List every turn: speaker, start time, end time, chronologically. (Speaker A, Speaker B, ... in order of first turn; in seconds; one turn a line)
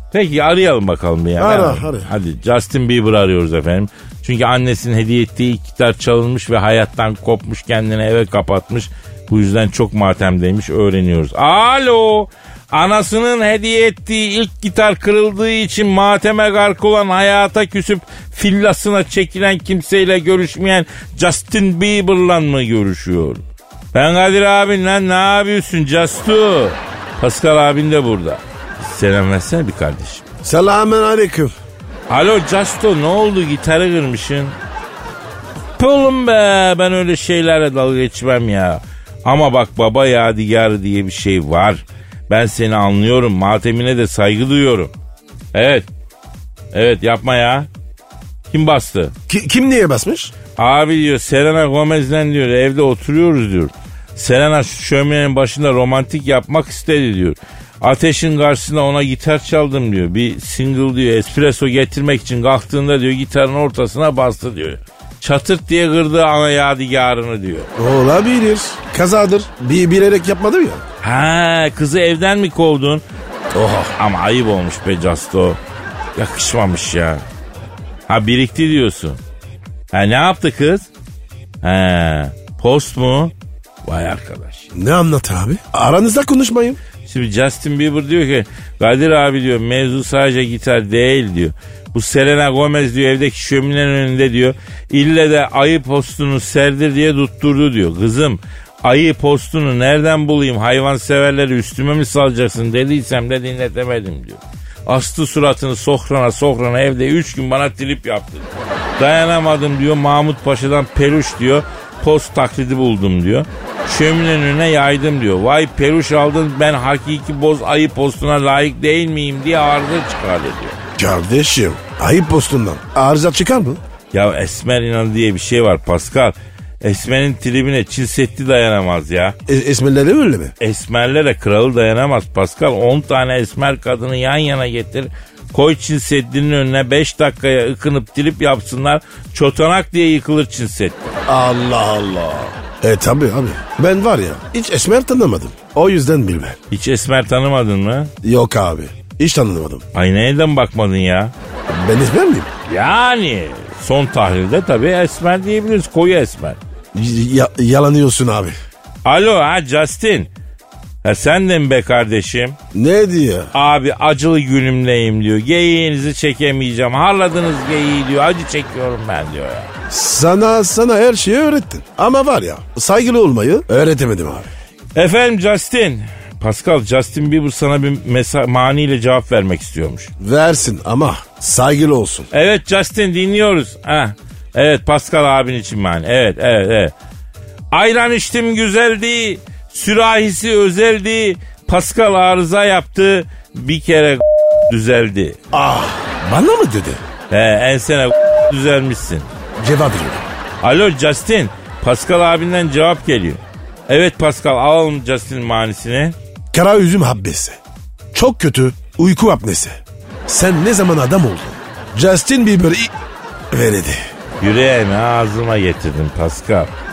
Speaker A: 0.1-23.4
Speaker B: 1.4-2.1
Speaker A: 23.9-30.2
Speaker B: 30.4-31.5
Speaker A: 32.1-34.6
Speaker A: 35.8-44.9
Speaker A: 45.5-45.9
Speaker A: 46.7-47.7
Speaker A: 48.5-49.1
Speaker B: 49.3-50.3
Speaker A: 50.6-67.7
Speaker B: 67.8-70.8
Speaker A: 71.0-73.0
Speaker B: 73.5-74.0
Speaker A: 74.0-75.6
Speaker A: 76.2-77.2
Speaker A: 78.1-79.2
Speaker A: 79.9-80.9
Speaker A: 81.6-83.3
Speaker A: 83.8-84.7
Speaker B: 84.7-86.8
Speaker A: 87.0-120.8
Speaker B: 121.0-123.8
Speaker A: 124.1-129.4
Speaker B: 129.5-130.5
Speaker A: 130.6-141.2
Speaker B: 141.3-146.6
Speaker A: 146.7-148.1
Speaker B: 148.2-149.8
Speaker A: 149.9-151.3
Speaker B: 151.7-152.5
Speaker A: 152.7-156.6
Speaker B: 156.9-158.6
Speaker A: 159.1-160.3
Speaker A: 161.0-162.6
Speaker B: 162.7-163.5
Speaker A: 163.5-169.7
Speaker B: 169.9-174.5
Speaker A: 174.9-180.1
Speaker B: 180.2-182.3
Speaker A: 182.3-186.9
Speaker A: 187.7-195.4
Speaker B: 195.5-197.0
Speaker A: 197.3-199.3
Speaker B: 199.6-200.3
Speaker A: 200.6-206.2
Speaker B: 206.5-207.6
Speaker B: 208.1-212.9
Speaker B: 213.5-214.0
Speaker A: 214.4-216.7